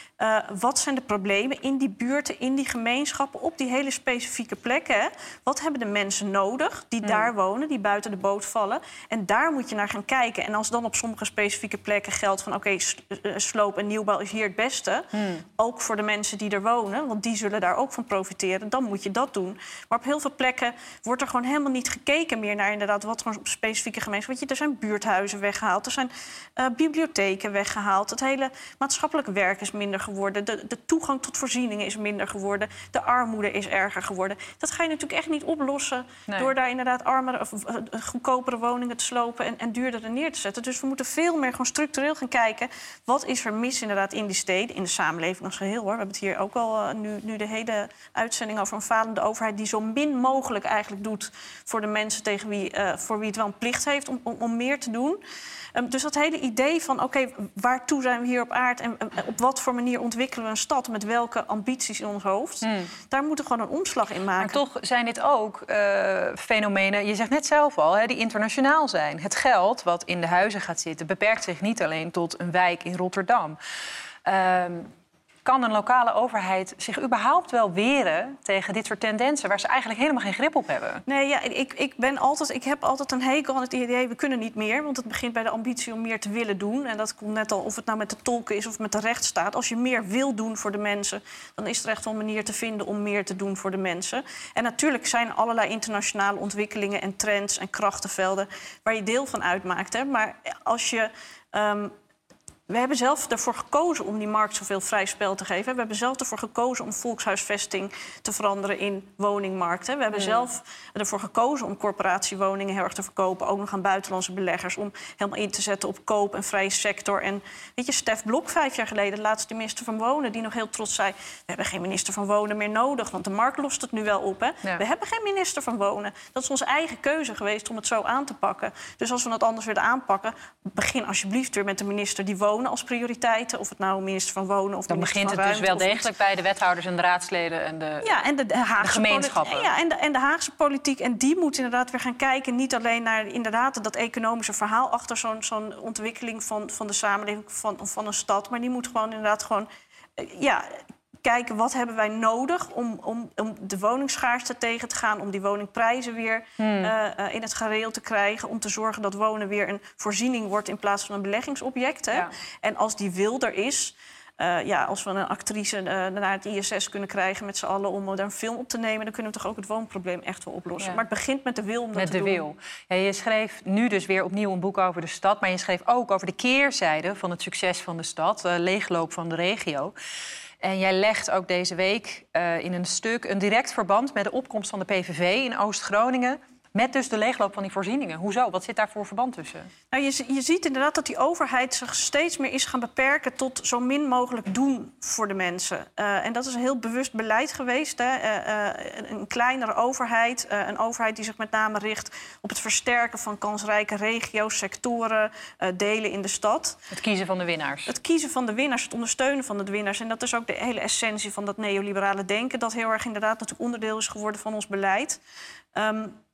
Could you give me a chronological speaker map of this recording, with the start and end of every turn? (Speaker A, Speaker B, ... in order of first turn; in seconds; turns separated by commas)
Speaker A: 0.2-15.1, Speaker B: 15.1-15.4, Speaker A: 15.6-55.2, Speaker A: 55.7-64.6, Speaker B: 62.6-62.9, Speaker B: 64.4-73.6, Speaker B: 74.2-74.9, Speaker B: 75.4-81.0, Speaker A: 81.1-101.9, Speaker A: 102.7-136.1, Speaker B: 110.2-110.4, Speaker B: 134.9-138.1, Speaker A: 138.0-172.4, Speaker B: 138.8-139.7, Speaker B: 156.6-156.9, Speaker B: 171.9-179.9, Speaker B: 180.6-189.7, Speaker A: 189.9-206.8, Speaker B: 206.9-207.9, Speaker A: 207.9-215.2, Speaker A: 215.7-216.1